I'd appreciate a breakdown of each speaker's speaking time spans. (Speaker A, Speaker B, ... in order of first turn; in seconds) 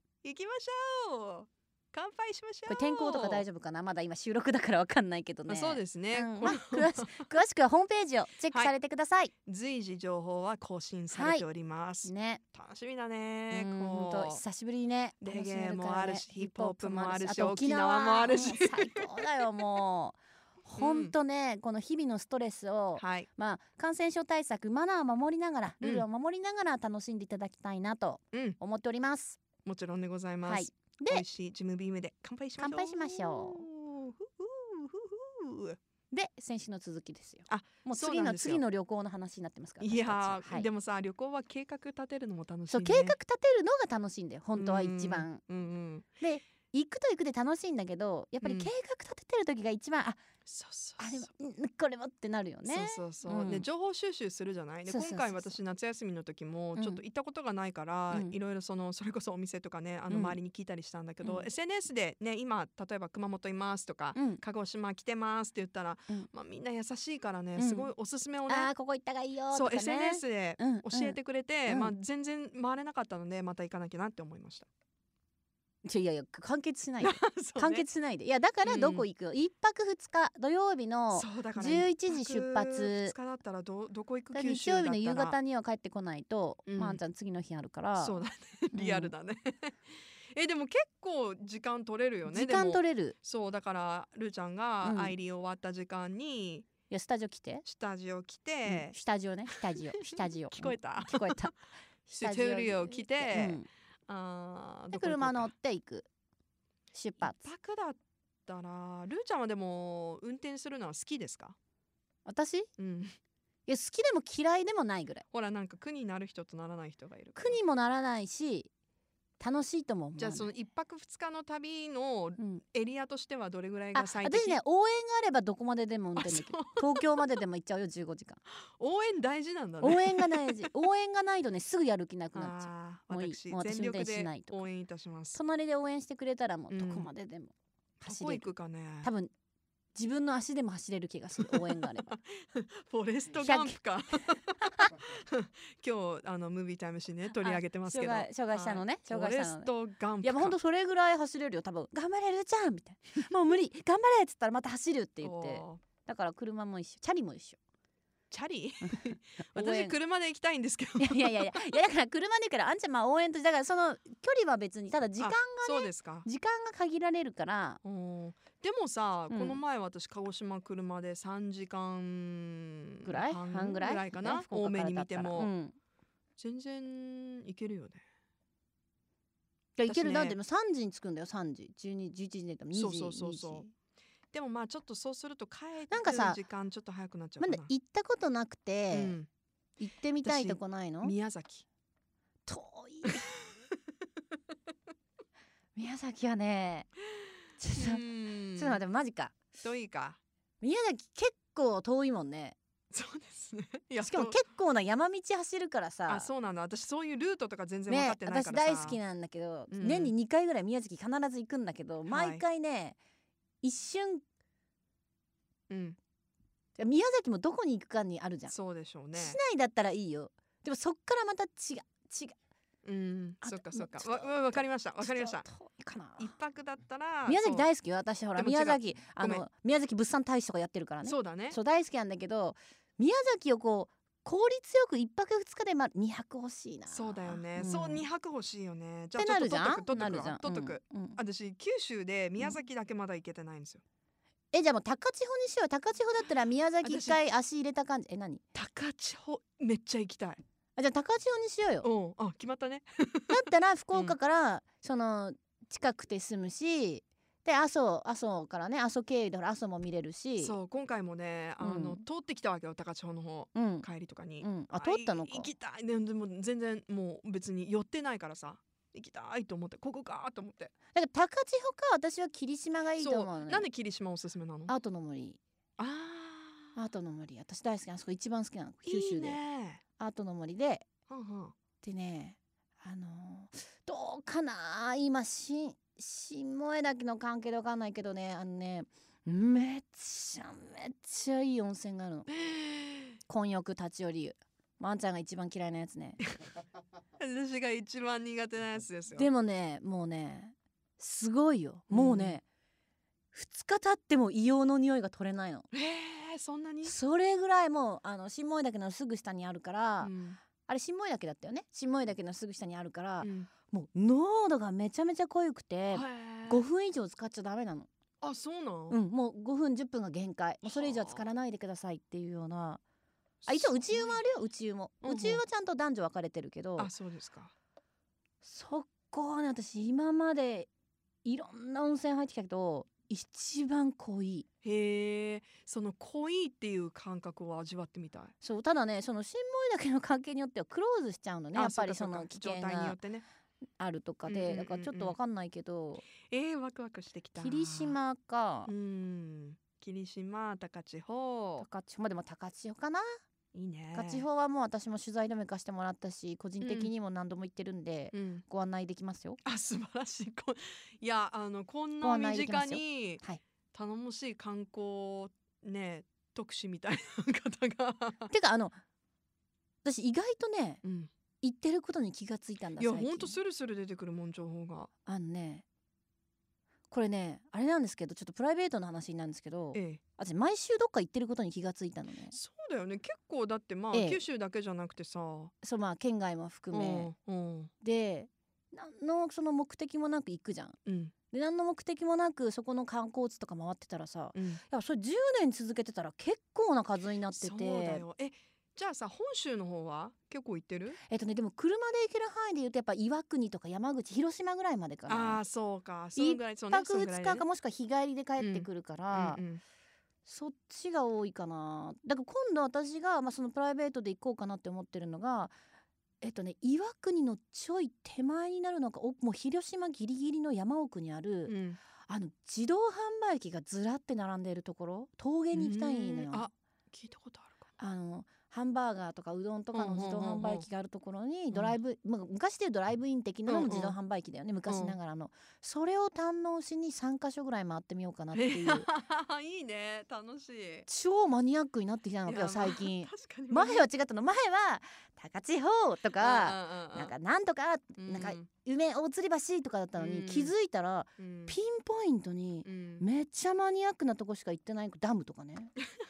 Speaker A: 0.2-3.4, 5.5-7.3, 9.4-14.4, 15.2-19.6, 20.8-21.1, 23.0-23.3, 28.3-28.6, 29.6-35.8, 37.5-38.6, 39.8-43.2, 44.5-46.1, 48.4-48.7, 50.5-51.3, 52.6-68.7, 69.5-74.7, 77.0-77.8, 78.6-79.0, 81.1-85.4, 86.7-87.0, 88.0-96.7, 97.6-99.0, 99.5-101.5, 102.1-105.5, 107.2-111.5, 112.8-113.2, 115.3-117.6, 120.2-124.6, 126.2-127.4, 128.8-130.7, 132.3-135.4, 136.7-137.1, 138.0-139.1, 141.4-150.6, 155.2-155.8, 158.3-161.7, 165.2-166.2, 167.8-175.5, 176.4-178.0, 179.8-180.4, 182.7-183.7, 184.3-187.7, 188.9-189.3, 190.2-191.6, 197.7-198.8, 199.6-200.2, 202.9-204.4, 206.1-209.0, 209.7-210.1, 212.1-212.4, 215.7-216.0, 218.5-219.4, 222.8-225.5, 226.2-227.7, 228.3-229.4, 231.0-231.6, 236.9-243.8, 246.8-247.2, 248.5-250.4, 251.8-253.4, 260.4-270.7, 273.0-274.7, 275.8-276.8, 278.9-279.8, 281.1-281.5, 292.3-293.2, 297.2-299.3, 301.9-302.4, 305.7-306.9, 310.0-310.4, 313.2-313.5, 315.9-316.6, 318.2-319.0, 320.6-321.2, 323.4-324.2, 325.0-325.4, 326.8-327.5, 334.6-338.3, 341.5-343.2, 344.3-345.1, 346.2-348.0, 348.7-351.6, 353.5-354.2, 356.6-356.9, 358.1-358.4, 359.4-363.2, 363.7-368.3, 370.8-371.1, 372.8-374.9, 379.7-380.0, 382.3-385.5, 386.7-387.7, 390.9-391.1, 394.4-394.6, 397.3-401.0, 405.1-407.4, 408.4-409.6, 421.5-421.8, 425.5-427.7, 429.7-430.7, 433.5-433.9, 434.7-434.9, 438.3-440.9, 442.2-443.8, 446.2-447.1, 448.0-448.5, 450.0-450.5, 451.2-451.5, 452.6-453.0
Speaker B: 2.7-9.3, 11.1-11.4, 12.0-12.4, 13.5-29.4, 30.4-31.2, 32.6-33.6, 36.1-40.7, 42.7-45.4, 46.2-50.2, 51.0-53.7, 54.9-55.6, 56.8-57.0, 60.1-60.4, 61.2-61.5, 64.1-64.4, 67.6-67.9, 68.5-71.9, 75.8-83.1, 84.3-88.2, 88.7-89.1, 92.3-93.2, 94.8-95.2, 96.9-97.6, 98.7-101.5, 102.1-103.7, 104.9-106.1, 106.9-107.5, 112.2-112.7, 113.7-115.2, 117.4-118.7, 119.4-120.5, 123.9-128.4, 129.8-134.7, 135.3-138.5, 139.0-139.3, 139.9-142.1, 143.4-143.8, 147.4-157.6, 158.8-160.0, 161.0-167.8, 169.3-169.6, 173.0-175.7, 179.8-183.7, 185.9-186.4, 187.4-189.2, 189.8-191.1, 192.4-193.5, 195.7-196.9, 197.6-199.3, 200.6-202.6, 204.0-206.3, 207.9-213.0, 213.6-214.2, 216.8-218.5, 219.1-222.3, 223.4-226.3, 227.2-238.1, 239.2-241.2, 244.5-248.4, 250.8-251.9, 253.3-260.6, 261.6-262.0, 263.5-263.9, 264.4-265.5, 270.9-273.7, 274.7-275.4, 276.8-279.4, 280.0-280.9, 281.8-292.3, 293.3-296.2, 299.1-302.4, 303.3-305.7, 306.8-310.1, 310.6-317.9, 318.9-322.8, 323.5-326.9, 328.4-330.7, 331.2-334.5, 338.4-343.0, 343.8-346.0, 347.4-348.7, 351.6-353.2, 353.9-359.4, 362.0-363.4, 368.3-368.8, 369.8-370.8, 371.4-373.4, 375.1-375.6, 376.9-382.4, 383.9-384.2, 385.6-387.1, 387.8-390.8, 391.3-398.0, 401.1-405.4, 406.1-409.4, 410.2-415.5, 416.2-421.5, 422.1-426.5, 427.8-438.9, 440.9-455.7